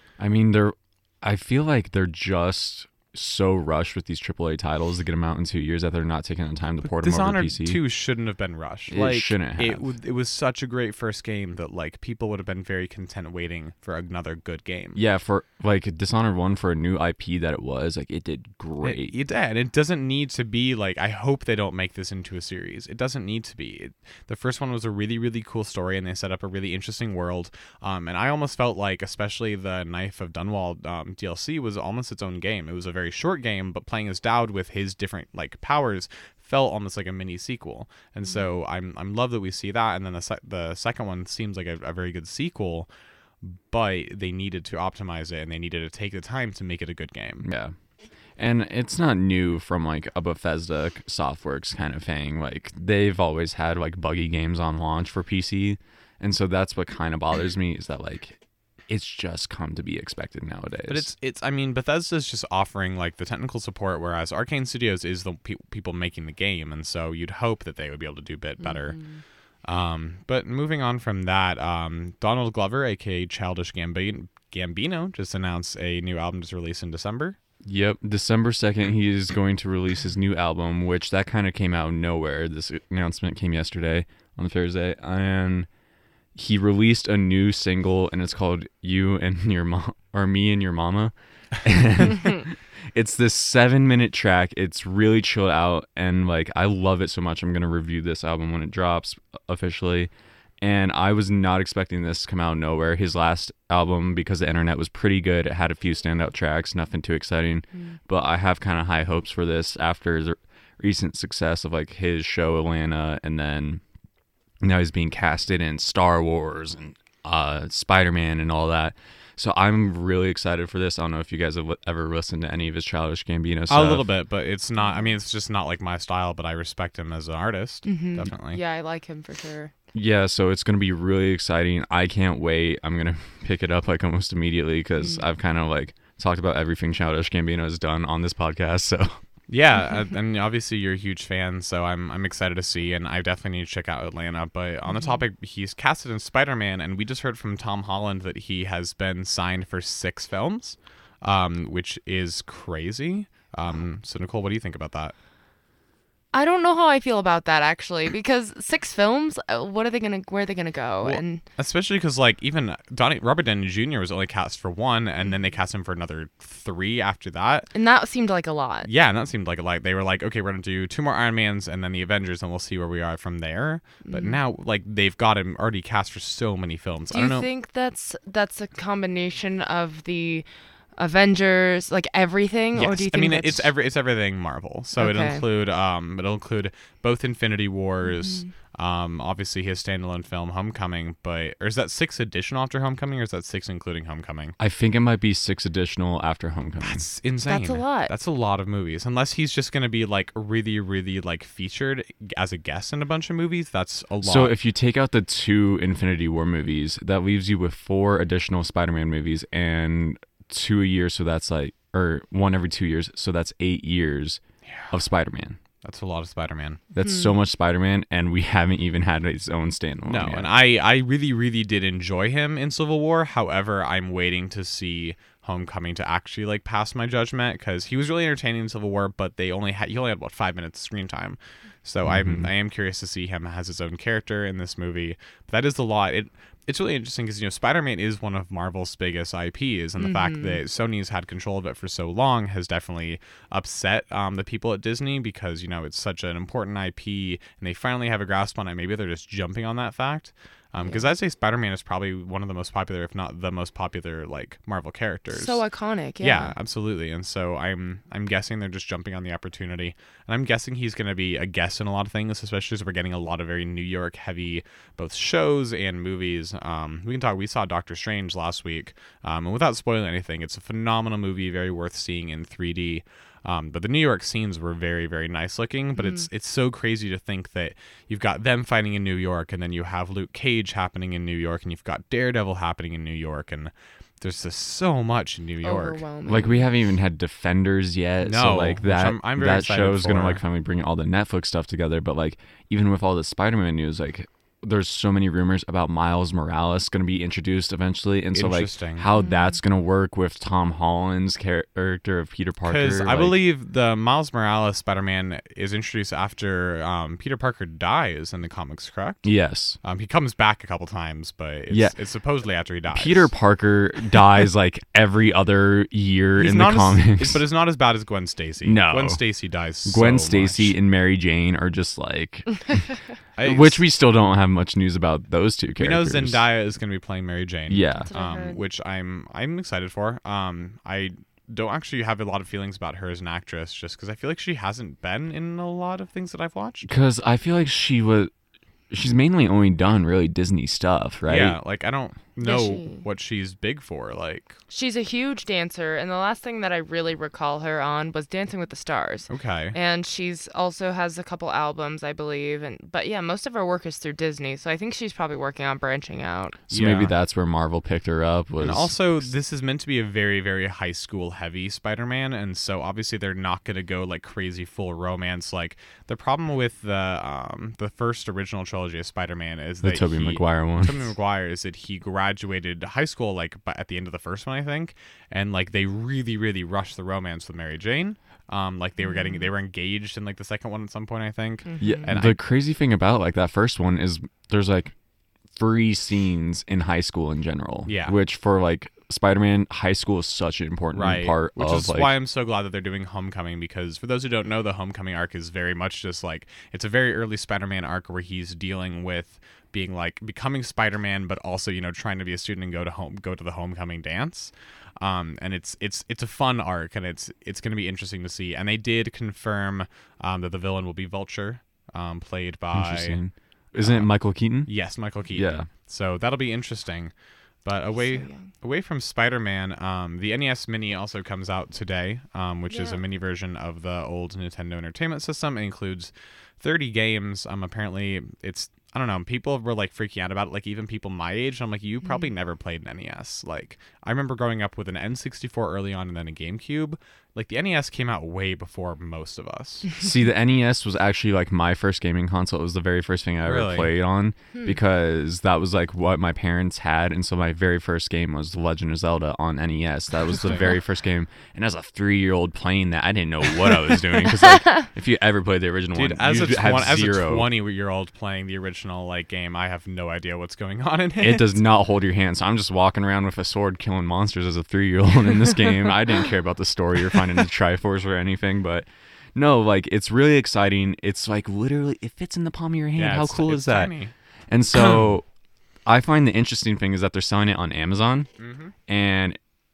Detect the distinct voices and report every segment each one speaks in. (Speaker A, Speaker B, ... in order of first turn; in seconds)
Speaker A: 0.2-7.8, 8.9-9.9, 14.9-19.1, 47.4-47.7, 48.4-61.1, 77.6-85.7, 86.3-113.8, 114.6-124.0, 129.9-139.2, 194.6-197.0, 204.2-215.6, 216.9-220.5, 232.0-232.5, 286.2-303.4, 309.2-309.8, 311.7-311.9, 312.9-317.4, 318.6-319.2, 319.9-322.9, 323.4-326.4, 327.7-328.1, 336.8-338.3, 338.9-341.6, 356.7-359.2, 369.8-371.1, 381.8-384.9, 385.5-392.1, 412.7-414.7, 415.3-415.7, 440.0-457.5, 461.2-473.9, 474.5-475.2, 475.9-478.3, 478.9-479.4
Speaker B: 6.8-15.0, 18.8-42.9, 43.4-47.5, 60.9-77.4, 123.7-128.6, 139.5-155.1, 161.0-167.7, 168.8-177.5, 182.7-194.6, 196.8-204.5, 214.7-214.9, 215.8-216.8, 220.1-255.6, 256.2-286.0, 288.2-290.4, 298.3-299.1, 302.6-309.3, 309.8-313.3, 316.4-320.7, 323.4-323.8, 325.8-336.9, 341.2-344.6, 349.3-349.8, 356.7-357.1, 358.6-382.4, 387.9-388.2, 390.9-413.2, 413.8-439.9, 443.4-443.9, 450.4-450.7, 455.9-461.6, 472.9-474.1, 478.4-478.7
Speaker C: 38.2-38.5, 68.6-69.2, 124.8-125.2, 127.8-129.7, 144.9-145.2, 156.3-161.4, 165.2-165.5, 167.7-168.9, 174.0-174.4, 177.1-183.7, 184.9-185.4, 188.0-188.5, 197.4-198.1, 217.0-217.3, 240.0-240.6, 250.8-251.1, 255.3-256.5, 276.0-276.3, 285.6-286.7, 299.1-299.6, 328.0-328.6, 342.4-343.0, 344.7-356.6, 379.0-379.5, 381.6-382.1, 417.9-418.5, 422.7-423.0, 432.0-432.3